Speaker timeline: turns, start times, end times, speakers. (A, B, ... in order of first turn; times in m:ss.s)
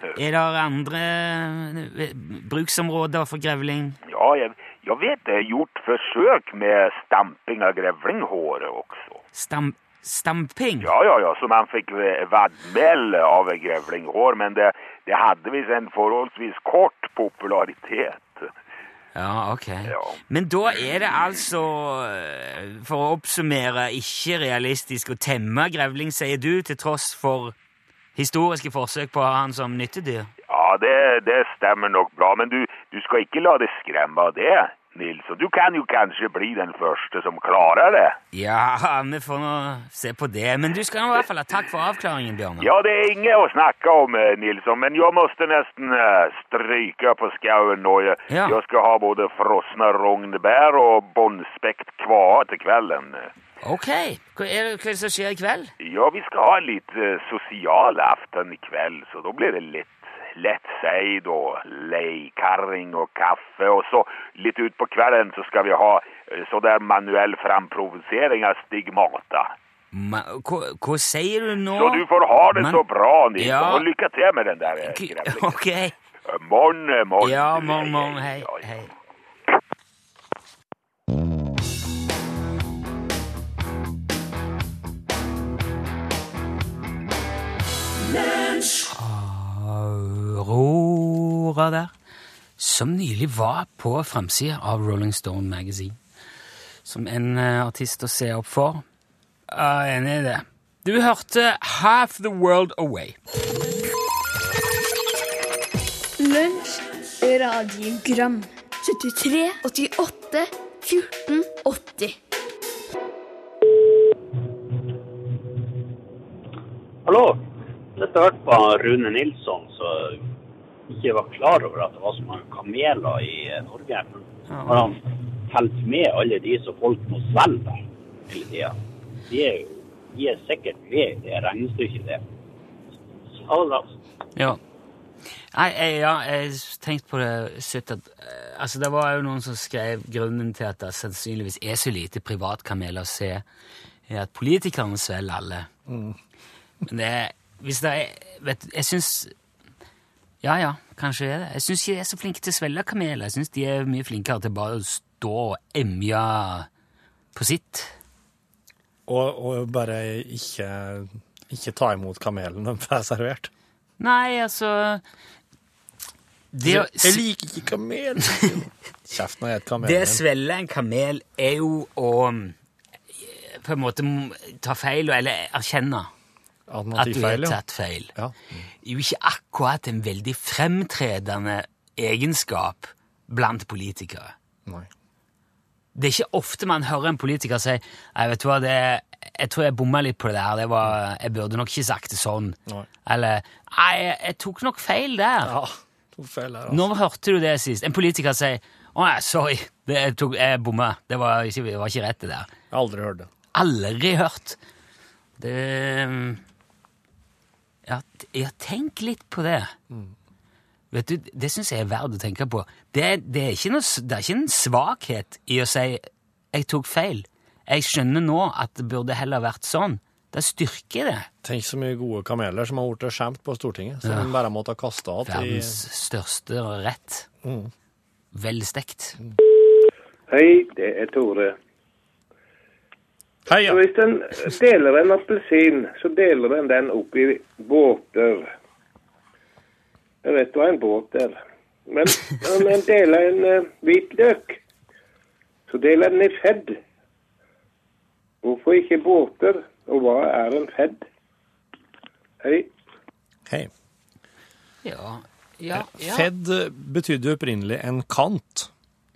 0:00.2-0:04.0 A
0:04.1-0:09.2 B
0:09.4-0:10.9 A
0:10.8-0:18.5 B
0:19.2-0:27.6 A
0:19.9-0:20.2 B
0:28.2-0:30.3 A
0:30.5-0:38.2 B
0:38.3-0:42.7 A
0:42.6-0:53.3 B
0:48.3-0:48.6 A
0:53.6-0:55.7 A
0:55.8-1:09.5 B
1:09.9-1:12.8 A
1:11.8-1:15.6 B
1:13.4-1:13.8 A
1:14.8-1:16.0 A
1:16.3-1:18.6 B
1:17.2-1:18.9 A
1:28.9-1:31.9 A
1:32.6-1:36.0 A
1:36.8-1:38.8 A
1:39.5-1:43.2 A
1:46.2-1:52.2 C
1:57.0-1:57.4 D
1:58.0-2:00.3 D
2:00.9-2:08.8 D
2:04.5-2:04.9 A
2:09.3-2:12.2 D
2:13.3-2:14.0 D
2:15.5-2:23.4 A
2:24.1-2:25.7 A
2:25.9-2:26.2 E
2:26.8-2:29.3 A
2:30.4-2:36.7 A
2:37.3-2:37.9 A
2:39.1-2:43.5 E
2:44.0-2:45.0 A
2:46.5-2:47.2 A
2:46.6-2:50.2 E
2:49.8-2:52.6 A
2:53.2-2:56.1 A
2:56.7-2:57.6 E
2:57.0-2:58.1 A
2:58.2-2:58.7 E
2:58.8-3:04.3 A
3:06.0-3:15.5 A
3:15.4-3:16.9 E
3:16.7-3:22.5 A
3:22.7-3:23.3 E
3:23.5-3:24.6 A
3:25.4-3:26.4 A
3:27.9-3:29.7 A
3:30.9-3:41.3 A
3:41.4-3:45.8 E
3:44.0-3:44.3 A
3:45.3-3:47.3 A
3:47.4-3:47.7 E
3:48.3-3:49.2 A
3:50.3-3:51.6 F
3:53.5-3:53.8 E
3:53.7-3:58.5 F
4:00.2-4:04.6 F
4:05.7-4:06.8 F
4:08.4-4:11.0 F
4:12.4-4:12.7 F
4:14.8-4:16.3 A
4:15.7-4:18.7 E